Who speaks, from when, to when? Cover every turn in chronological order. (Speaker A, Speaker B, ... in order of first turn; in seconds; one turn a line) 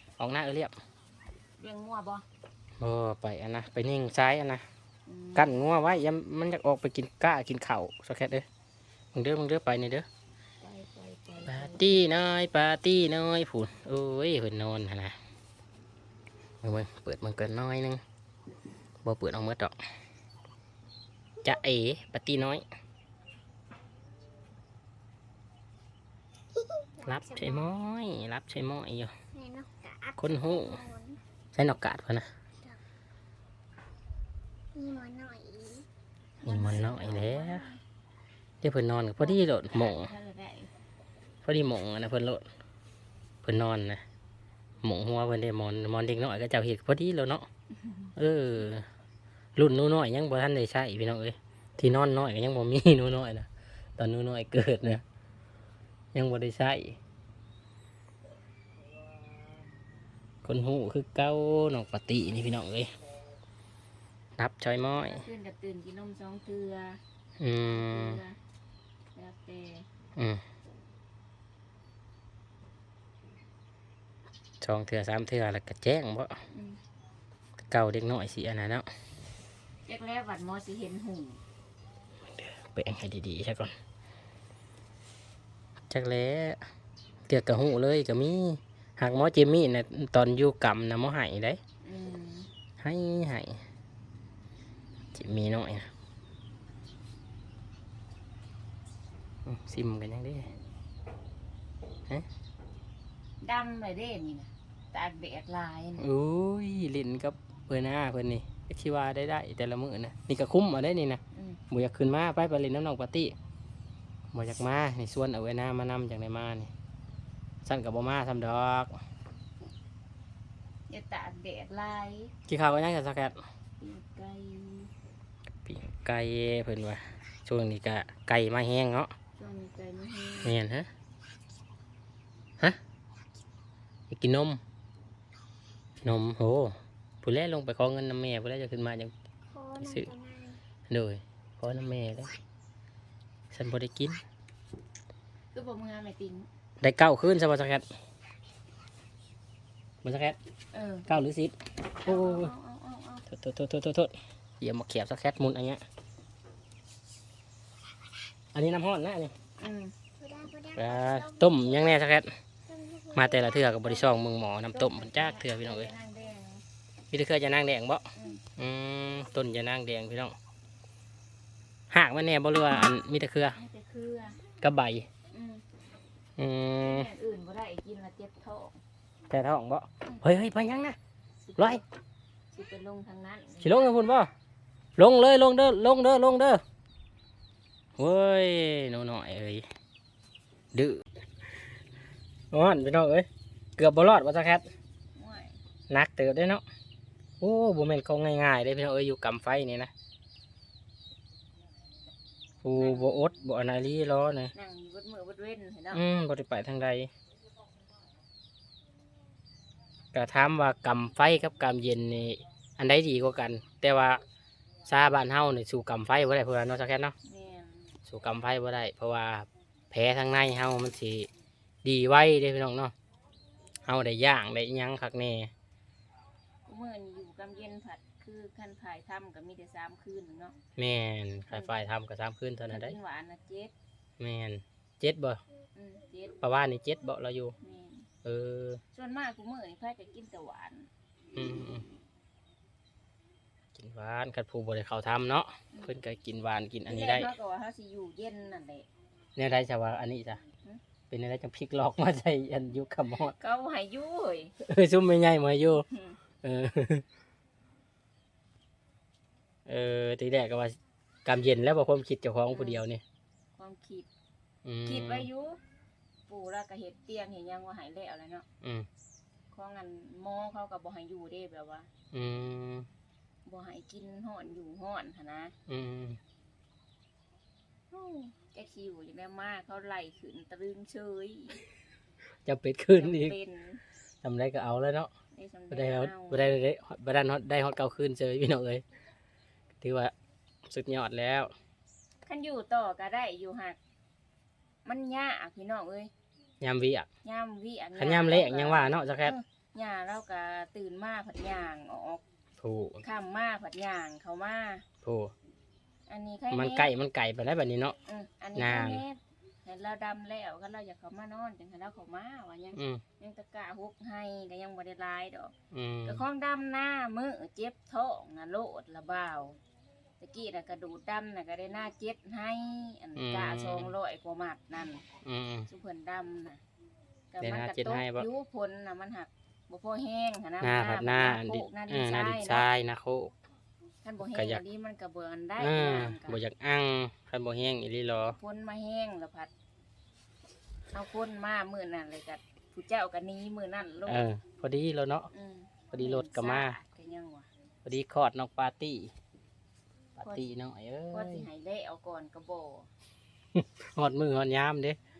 Speaker A: 0.2-0.7
Speaker B: 1.6-2.2
Speaker A: 2.8-4.6
Speaker B: 5.1-5.5
Speaker A: 5.3-8.4
Speaker A: 9.1-10.1
Speaker B: 10.6-11.8
Speaker A: 11.4-15.1
Speaker A: 16.6-18.0
Speaker A: 19.0-19.8
Speaker A: 21.4-22.6
Speaker C: 26.6-27.6
Speaker A: 27.0-29.1
Speaker C: 29.3-31.2
Speaker A: 30.2-30.8
Speaker A: 31.5-32.3
Speaker C: 34.7-35.9
Speaker A: 36.4-37.6
Speaker B: 36.4-37.8
Speaker A: 38.6-40.1
Speaker B: 39.2-40.7
Speaker A: 41.4-42.4
Speaker A: 43.4-44.0
Speaker A: 44.8-47.5
Speaker A: 48.1-48.9
Speaker A: 49.5-55.0
Speaker A: 56.1-57.0
Speaker A: 60.4-62.9
Speaker A: 64.4-65.2
Speaker B: 64.9-67.0
Speaker A: 67.4-68.2
Speaker B: 67.7-68.3
Speaker B: 69.1-69.9
Speaker A: 74.6-76.4
Speaker B: 76.5-76.8
Speaker A: 77.7-78.9
Speaker B: 79.8-81.4
Speaker A: 82.3-83.7
Speaker A: 85.9-86.6
Speaker A: 87.3-91.6
Speaker B: 91.8-92.5
Speaker A: 92.8-93.6
Speaker A: 95.1-95.9
Speaker A: 99.5-100.5
Speaker B: 103.4-106.0
Speaker A: 106.0-113.3
Speaker B: 111.3-111.6
Speaker A: 114.3-116.7
Speaker A: 117.6-118.9
Speaker B: 120.9-122.3
Speaker A: 122.5-123.4
Speaker B: 123.8-124.9
Speaker A: 125.7-129.1
Speaker B: 129.4-130.6
Speaker A: 130.4-130.9
Speaker A: 134.1-134.6
Speaker A: 136.0-139.1
Speaker C: 139.5-140.6
Speaker A: 139.8-140.1
Speaker A: 140.9-142.3
Speaker A: 143.5-144.2
Speaker B: 145.5-146.5
Speaker A: 146.8-147.8
Speaker A: 150.0-150.4
Speaker B: 150.7-151.1
Speaker A: 151.1-152.5
Speaker B: 152.0-153.2
Speaker A: 153.3-155.8
Speaker A: 158.5-159.3
Speaker B: 159.6-159.9
Speaker C: 160.2-161.9
Speaker A: 160.8-162.3
Speaker C: 162.7-163.7
Speaker A: 163.1-165.9
Speaker B: 164.7-166.6
Speaker A: 167.1-168.0
Speaker B: 168.1-168.4
Speaker A: 168.6-170.3
Speaker A: 171.9-173.6
Speaker B: 173.5-174.4
Speaker A: 174.6-175.1
Speaker B: 175.3-175.6
Speaker A: 176.4-177.1
Speaker B: 176.8-178.8
Speaker A: 179.3-181.0
Speaker B: 181.4-181.8
Speaker A: 181.6-181.8
Speaker B: 182.5-183.9
Speaker A: 183.6-184.3
Speaker A: 185.0-186.6
Speaker A: 188.0-189.6
Speaker A: 190.7-191.0
Speaker A: 192.5-194.7
Speaker B: 195.1-195.6
Speaker A: 195.9-196.6
Speaker A: 197.4-199.9
Speaker A: 202.6-204.5
Speaker B: 202.7-203.4
Speaker B: 204.5-206.0
Speaker A: 205.9-207.1
Speaker A: 210.1-214.2
Speaker A: 214.8-217.1
Speaker B: 217.2-217.9
Speaker A: 218.1-221.3
Speaker A: 221.8-222.9
Speaker A: 223.8-225.5
Speaker B: 226.7-230.6
Speaker A: 230.8-233.0
Speaker B: 231.5-231.7
Speaker B: 232.7-233.7
Speaker A: 234.2-235.4
Speaker B: 235.7-236.4
Speaker A: 236.4-237.5
Speaker B: 237.6-238.1
Speaker A: 238.2-238.8
Speaker B: 238.9-240.9
Speaker A: 241.3-241.8
Speaker A: 243.8-247.3
Speaker B: 246.8-248.9
Speaker A: 249.3-250.4
Speaker A: 251.1-253.3
Speaker B: 253.3-254.5
Speaker A: 254.6-255.8
Speaker B: 255.9-256.2
Speaker A: 256.4-257.0
Speaker A: 259.7-263.0
Speaker B: 262.5-262.8
Speaker B: 263.5-264.1
Speaker A: 264.6-265.3
Speaker B: 264.8-265.6
Speaker B: 266.3-268.4
Speaker A: 268.6-268.9
Speaker B: 269.5-271.9
Speaker A: 272.1-272.9
Speaker B: 273.4-275.5
Speaker A: 275.7-276.2
Speaker B: 277.9-281.6
Speaker A: 282.4-283.4
Speaker B: 282.9-283.8
Speaker A: 284.2-285.1
Speaker B: 285.3-286.5
Speaker A: 285.7-288.8
Speaker A: 289.8-290.1
Speaker A: 290.6-291.5
Speaker B: 292.2-293.8
Speaker B: 294.8-296.1
Speaker A: 296.6-297.1
Speaker B: 297.2-302.2
Speaker A: 298.0-299.3
Speaker A: 302.6-303.0
Speaker B: 303.0-304.8
Speaker A: 305.0-305.3
Speaker B: 306.1-306.9
Speaker A: 306.5-307.9
Speaker B: 308.1-315.5
Speaker A: 308.5-309.0
Speaker A: 312.7-313.0
Speaker A: 315.7-316.2
Speaker B: 316.0-319.6
Speaker B: 320.2-325.0
Speaker A: 323.1-323.9
Speaker A: 325.2-325.7
Speaker B: 325.7-326.6
Speaker B: 327.3-332.7
Speaker A: 327.4-328.3
Speaker A: 330.6-333.3
Speaker B: 334.0-336.4
Speaker A: 334.3-334.6
Speaker A: 335.6-338.4
Speaker B: 338.3-339.5
Speaker B: 340.9-344.2
Speaker A: 344.1-345.3
Speaker B: 345.3-347.5
Speaker A: 345.9-346.8
Speaker A: 347.8-349.1
Speaker A: 350.2-351.4
Speaker B: 350.2-350.4
Speaker B: 351.1-352.9
Speaker A: 353.5-355.0